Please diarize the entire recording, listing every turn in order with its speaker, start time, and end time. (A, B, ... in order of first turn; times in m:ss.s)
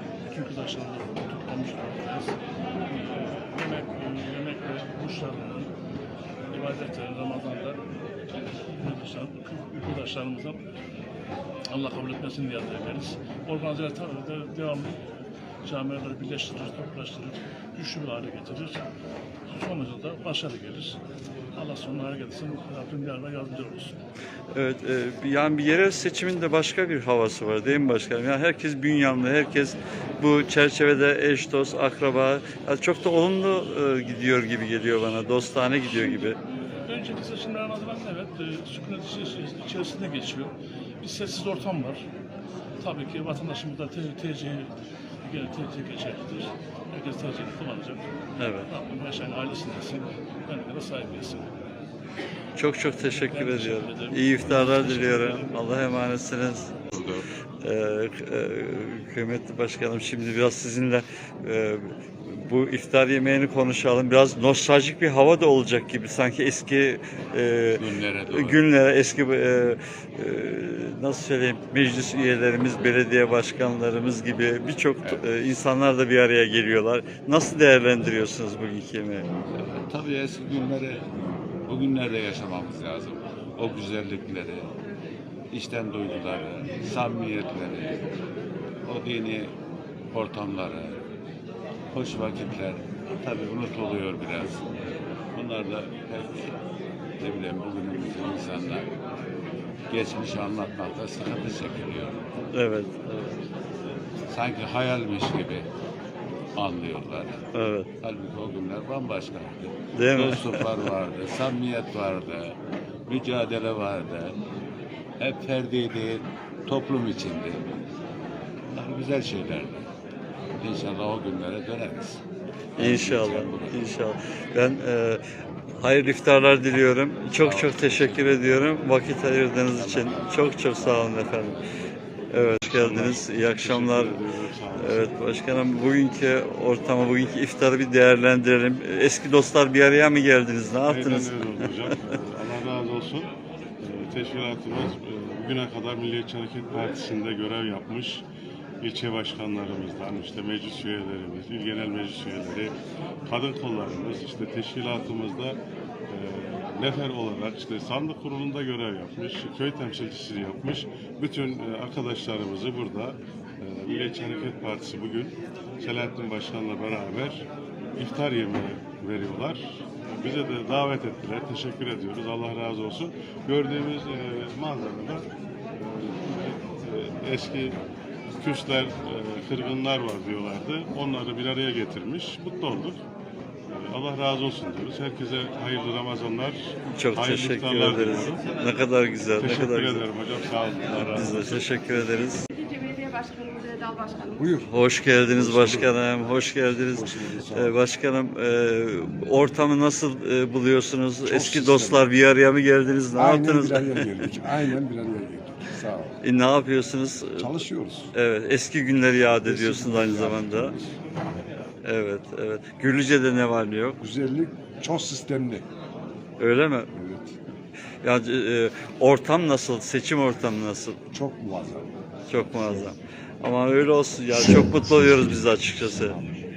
0:00.3-0:02.4 A
0:02.9-0:05.7 A
0:06.5-0:07.8 A
0:08.5-0:10.6 A
0:11.7-0:15.0 A
0:15.6-0:18.8 A
0:19.5-0:21.0 A
0:21.6-0:23.9 A
0:24.5-0:36.4 B
0:36.2-0:42.0 A
0:42.8-0:44.7 A
0:45.2-0:48.0 A
0:48.4-0:48.7 B
0:48.7-0:51.5 A
0:52.6-0:56.7 B
0:53.1-0:55.6 A
0:57.6-1:19.2 B
1:07.8-1:08.6 C
1:19.5-1:21.1 C
1:21.7-1:24.7 C
1:25.5-1:28.0 C
1:28.9-1:29.5 C
1:30.1-1:31.0 C
1:31.9-1:36.5 C
1:37.2-1:38.9 C
1:39.9-1:42.2 C
1:42.5-1:43.4 B
1:44.3-1:45.7 C
1:46.6-1:47.4 C
1:47.5-1:47.9 B
1:48.0-1:52.6 C
1:50.0-1:50.9 B
1:53.1-1:54.4 C
1:55.2-1:57.8 C
1:58.7-1:59.9 C
2:00.6-2:02.2 C
2:02.8-2:05.2 B
2:02.8-2:03.9 C
2:05.8-2:11.6 B
2:07.4-2:08.7 C
2:09.8-2:11.0 C
2:12.3-2:14.2 B
2:12.8-2:15.1 D
2:14.8-2:22.0 B
2:20.9-2:28.2 D
2:28.8-2:32.7 D
2:33.3-2:47.4 D
2:48.0-2:49.6 D
2:50.2-2:57.8 D
2:58.4-3:03.0 D
3:03.7-3:08.4 D
3:06.9-3:10.0 B
3:09.4-3:11.7 D
3:11.0-3:12.5 B
3:14.4-3:14.7 E
3:14.7-3:24.4 B
3:15.2-3:16.0 E
3:16.9-3:17.8 E
3:21.2-3:22.1 E
3:23.2-3:26.2 E
3:26.2-3:27.5 B
3:27.4-3:28.1 E
3:28.2-3:30.7 B
3:29.4-3:31.0 E
3:31.9-3:34.0 B
3:34.0-3:35.6 E
3:36.4-3:36.9 B
3:36.9-3:37.4 E
3:38.0-3:41.0 B
3:41.1-3:42.9 E
3:42.3-3:46.2 B
3:44.7-3:46.4 E